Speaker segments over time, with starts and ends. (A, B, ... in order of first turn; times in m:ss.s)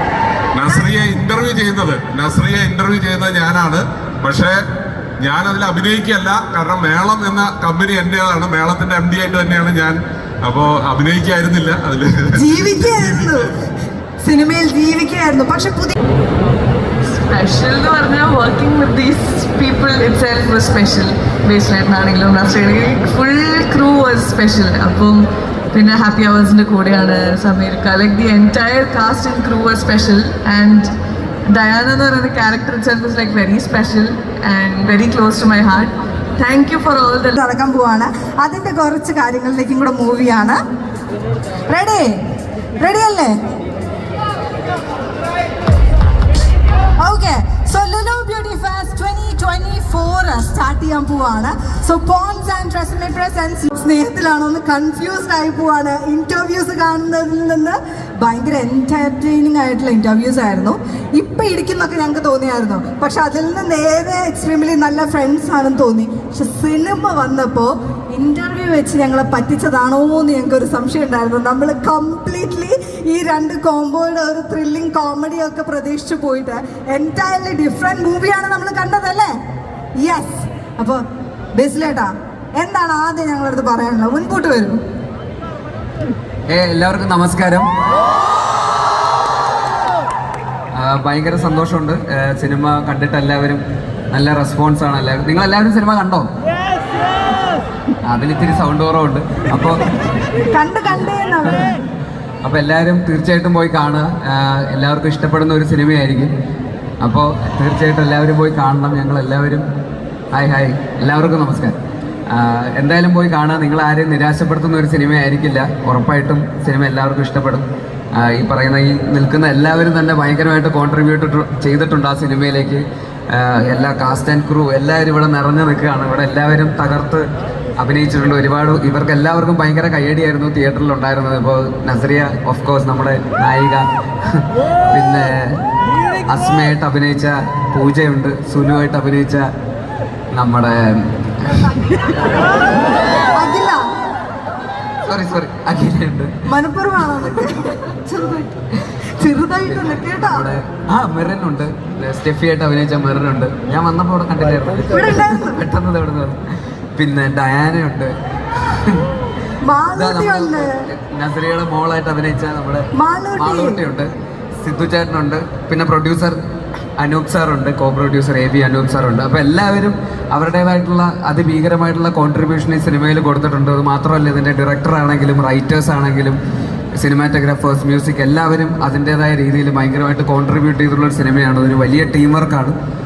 0:00.5-0:04.6 A
0:05.2-0:13.2 A
0:12.3-0:13.6 B
0:14.2-0:16.0 B
0:17.0-0:30.9 C
0:31.5-0:37.3 C
0:37.3-0:40.6 B
0:41.7-0:42.1 B
0:42.8-0:43.3 B
0:47.0-1:19.3 B
1:20.0-1:21.0 B
1:21.6-1:24.8 B
1:26.5-1:27.7 D
1:30.7-1:36.3 D
1:38.0-1:39.8 D
1:40.5-1:41.7 B
1:42.4-1:46.3 D
1:47.0-1:49.6 D
1:50.3-1:51.8 D
1:52.3-2:07.2 D
2:07.8-2:15.6 D
2:16.3-2:19.5 D
2:20.3-2:22.3 D
2:23.4-2:23.8 B
2:25.0-2:26.3 D
2:26.5-2:28.5 B
2:29.2-2:30.4 B
2:29.7-2:36.4 D
2:34.9-2:35.6 B
2:36.9-2:39.1 D
2:39.6-2:40.8 B
2:39.9-2:46.4 D
2:43.0-2:43.8 B
2:47.0-2:56.4 D
2:57.0-3:02.8 D